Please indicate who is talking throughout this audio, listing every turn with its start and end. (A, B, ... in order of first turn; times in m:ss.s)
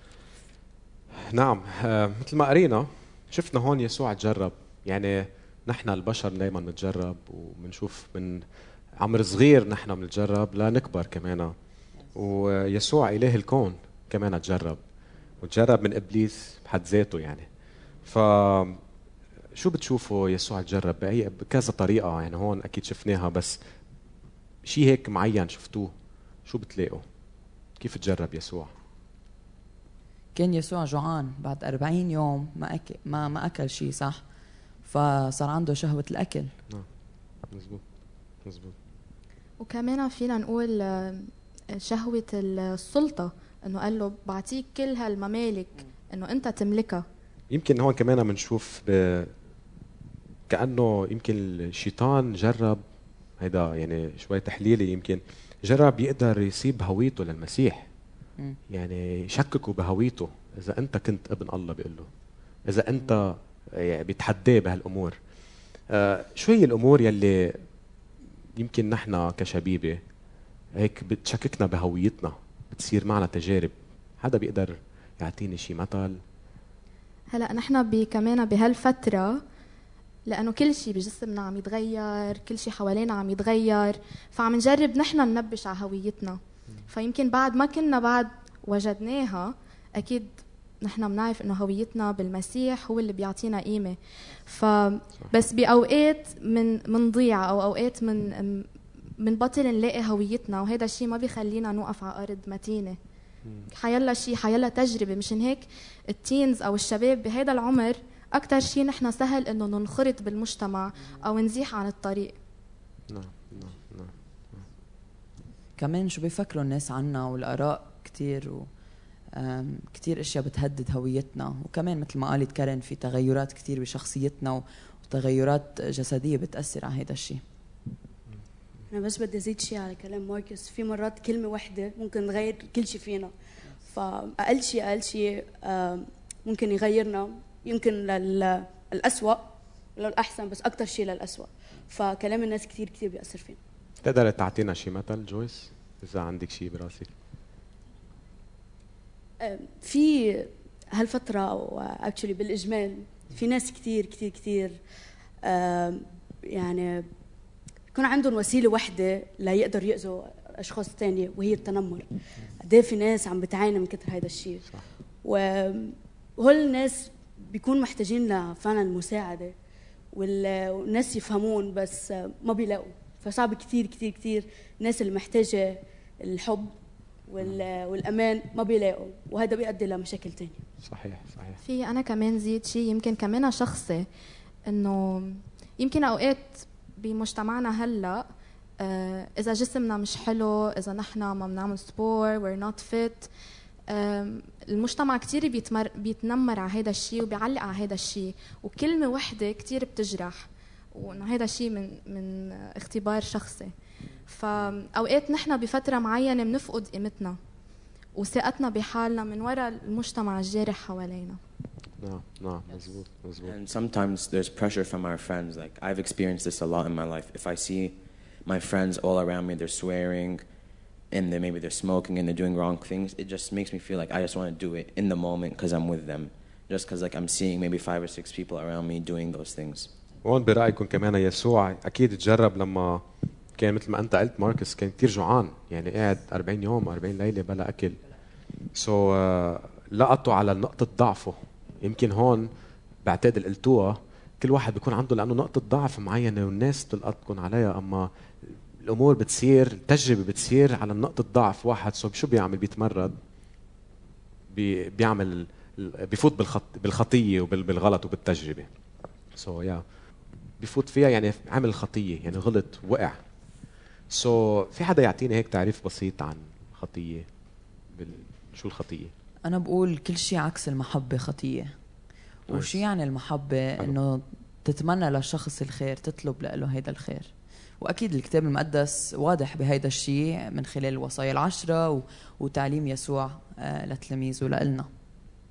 0:01.2-0:08.4 A
0:09.0-0:11.6 A
0:12.2-0:14.8 A
0:15.4-0:17.5 A
0:18.0-0:18.8 A
0:19.6-0:23.6 A
0:24.6-0:25.9 A
0:26.5-0:27.0 A
0:27.8-0:28.7 A
0:30.4-0:34.2 B
0:34.9-0:36.5 B
0:37.5-0:37.8 A
0:38.4-0:38.7 A
0:39.6-0:47.0 C
0:47.5-0:49.3 A
0:50.5-0:52.8 A
0:53.4-0:57.9 A
0:58.7-1:02.1 A
1:02.7-1:05.2 A
1:05.9-1:07.6 A
1:08.6-1:10.0 A
1:10.8-1:16.2 A
1:17.3-1:19.4 C
1:20.3-1:38.7 C
1:39.2-1:43.0 C
1:43.7-1:52.4 C
1:53.1-1:54.1 A
1:55.8-1:58.7 B
1:59.3-2:07.4 B
2:08.9-2:13.3 D
2:13.9-2:23.6 D
2:24.0-2:27.1 A
2:29.4-2:34.8 D
2:35.4-2:37.1 D
2:37.9-2:42.1 D
2:42.6-2:44.7 D
2:45.2-2:49.6 D
2:50.1-2:56.7 D
2:57.3-3:00.6 D
3:00.8-3:01.6 A
3:01.6-3:04.1 C
3:04.7-3:08.2 C
3:08.8-3:13.3 C
3:13.9-3:23.7 C
3:24.3-3:27.4 C
3:28.2-3:31.4 C
3:32.0-3:33.5 A
3:33.4-3:40.4 E
3:41.1-3:49.9 E
3:50.2-3:53.0 A
3:53.6-3:58.0 A
3:58.8-4:02.5 A
4:03.0-4:13.2 A
4:14.5-4:18.7 A
4:19.4-4:19.8 A
4:20.6-4:23.2 A
4:24.1-4:27.3 A
4:27.9-4:29.1 A
4:29.4-4:31.8 B
4:32.5-4:44.9 B
4:32.5-4:32.8 A